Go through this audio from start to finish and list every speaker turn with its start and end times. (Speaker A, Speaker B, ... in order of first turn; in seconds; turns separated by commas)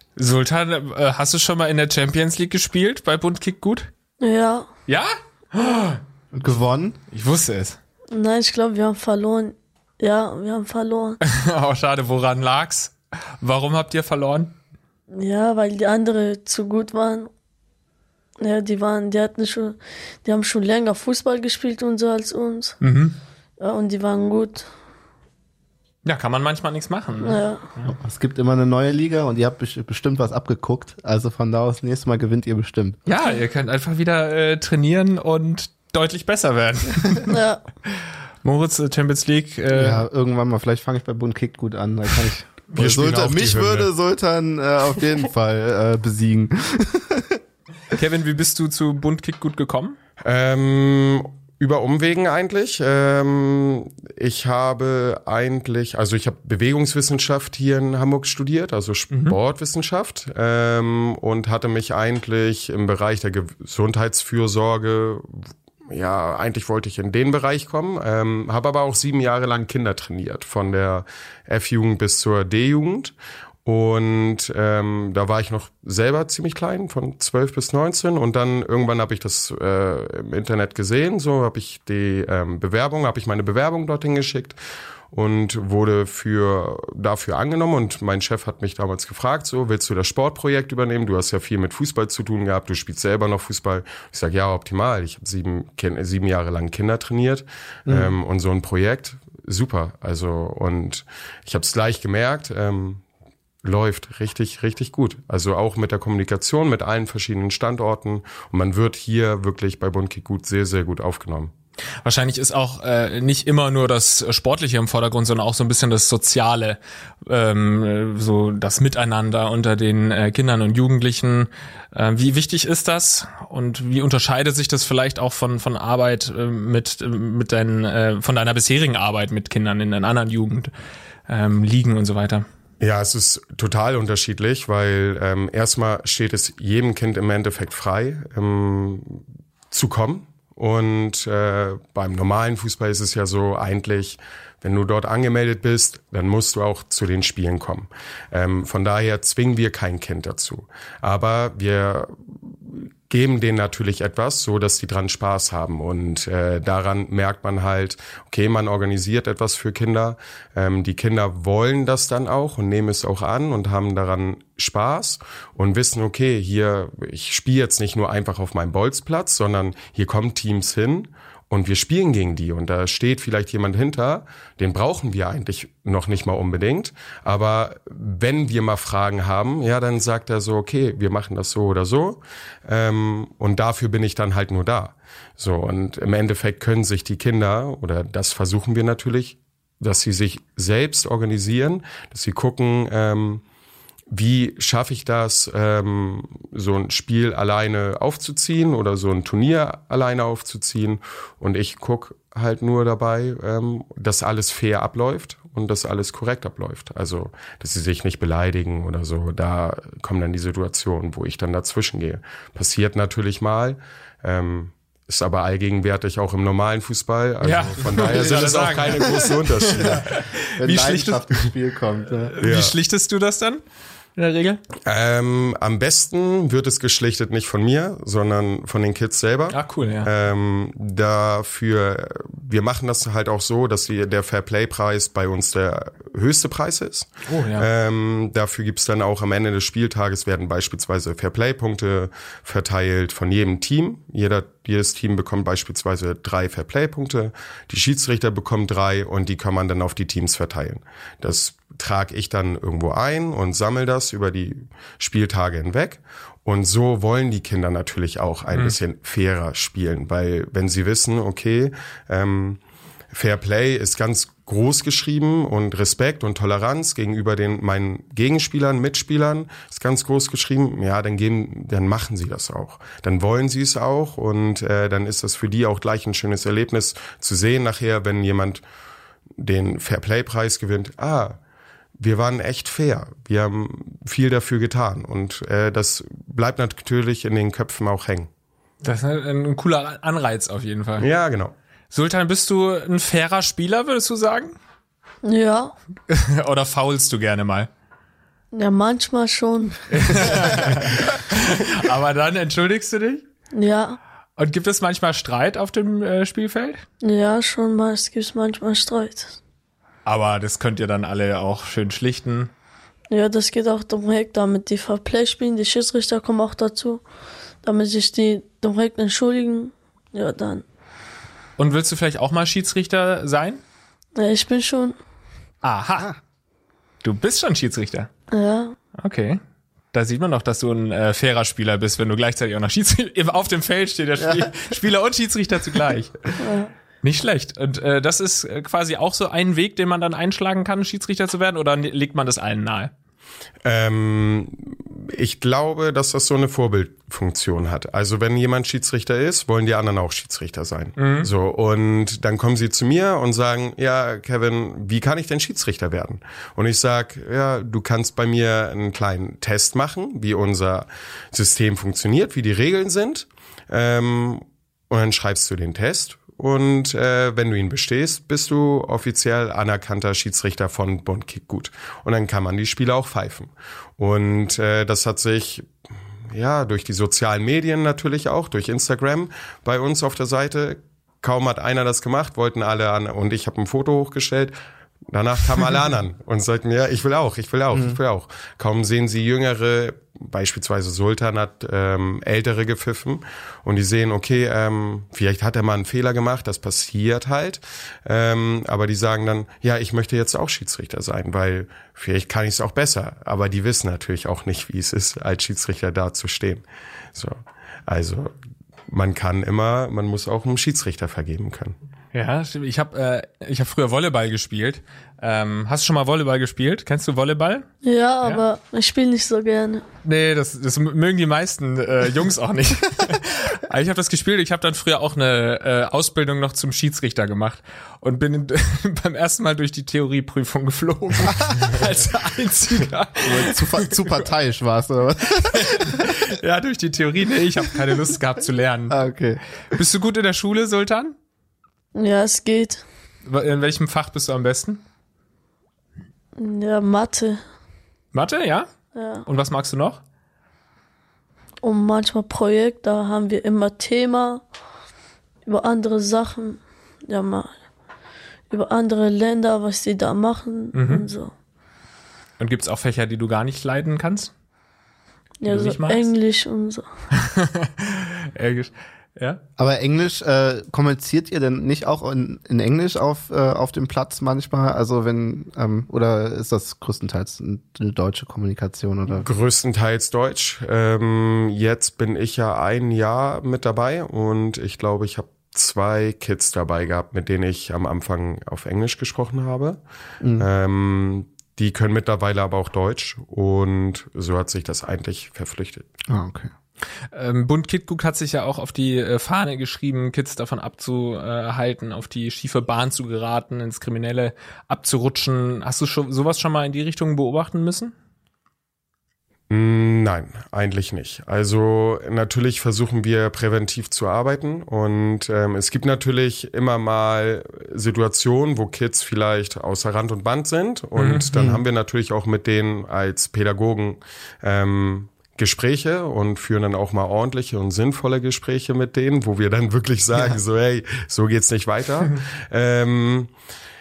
Speaker A: 0.2-3.9, Speaker B: 4.2-4.7, Speaker A: 4.9-6.0, Speaker C: 6.3-7.0, Speaker A: 7.1-7.8, Speaker B: 8.1-11.2, Speaker A: 11.2-14.5, Speaker B: 15.1-17.3, Speaker B: 18.4-22.8, Speaker A: 22.8-23.2, Speaker B: 23.6-24.7, Speaker A: 26.0-27.9, Speaker B: 27.2-27.6, Speaker C: 27.9-33.0, Speaker A: 33.0-37.4, Speaker B: 37.3-37.6, Speaker A: 38.4-40.0, Speaker C: 39.7-47.4, Speaker D: 42.7-43.9, Speaker A: 47.9-50.0, Speaker D: 50.2-84.6, Speaker A: 59.1-59.4, Speaker D: 85.1-103.0, Speaker C: 97.9-98.1, Speaker D: 103.6-111.5, Speaker A: 112.0-130.7, Speaker A: 131.3-132.4, Speaker D: 132.8-193.4, Speaker D: 194.1-220.1, Speaker A: 217.4-221.5, Speaker C: 219.8-222.4, Speaker A: 222.3-223.6, Speaker D: 222.4-222.7, Speaker A: 224.2-224.6, Speaker D: 224.8-262.6, Speaker A: 229.5-230.1, Speaker A: 237.3-237.7, Speaker D: 263.1-278.6, Speaker D: 279.4-281.4, Speaker D: 282.0-288.3, Speaker A: 288.8-291.1, Speaker D: 291.0-291.5, Speaker A: 291.9-294.5, Speaker B: 295.2-295.7, Speaker A: 296.1-297.7, Speaker B: 298.5-300.6, Speaker A: 299.9-303.2, Speaker B: 303.5-304.0, Speaker A: 304.4-306.8, Speaker B: 307.0-309.4, Speaker A: 310.1-312.5, Speaker B: 313.1-317.0, Speaker B: 317.6-320.6, Speaker A: 321.6-323.6, Speaker B: 324.1-324.9, Speaker A: 325.6-326.1, Speaker A: 327.0-328.1, Speaker B: 328.3-328.8, Speaker A: 329.0-329.4, Speaker A: 329.9-336.2, Speaker C: 334.2-334.5, Speaker B: 336.4-336.7, Speaker A: 337.0-342.9, Speaker D: 343.6-375.7, Speaker A: 351.0-351.3, Speaker D: 376.3-384.5, Speaker D: 385.1-408.3, Speaker C: 387.7-388.0, Speaker D: 408.9-411.8, Speaker A: 412.1-417.7, Speaker B: 417.8-419.8, Speaker A: 420.0-434.3, Speaker C: 431.3-431.7, Speaker C: 433.2-436.1, Speaker A: 435.3-439.0, Speaker C: 437.7-438.1, Speaker C: 438.9-439.4, Speaker A: 439.7-441.1, Speaker B: 441.9-442.8, Speaker A: 443.2-444.8, Speaker B: 446.4-447.4, Speaker A: 448.1-448.7, Speaker B: 448.9-449.2, Speaker A: 449.2-450.0, Speaker B: 451.6-454.4, Speaker B: 455.4-457.5, Speaker B: 458.5-461.3, Speaker A: 460.7-461.0, Speaker A: 462.4-464.3, Speaker B: 465.4-466.9, Speaker A: 465.4-466.1, Speaker A: 467.2-469.4, Speaker C: 469.6-479.2, Speaker D: 479.2-489.8, Speaker C: 490.2-490.5, Speaker D: 490.4-495.9, Speaker C: 496.1-496.5, Speaker A: 497.1-507.9, Speaker D: 509.5-533.3, Speaker A: 521.0-521.3, Speaker C: 521.3-521.6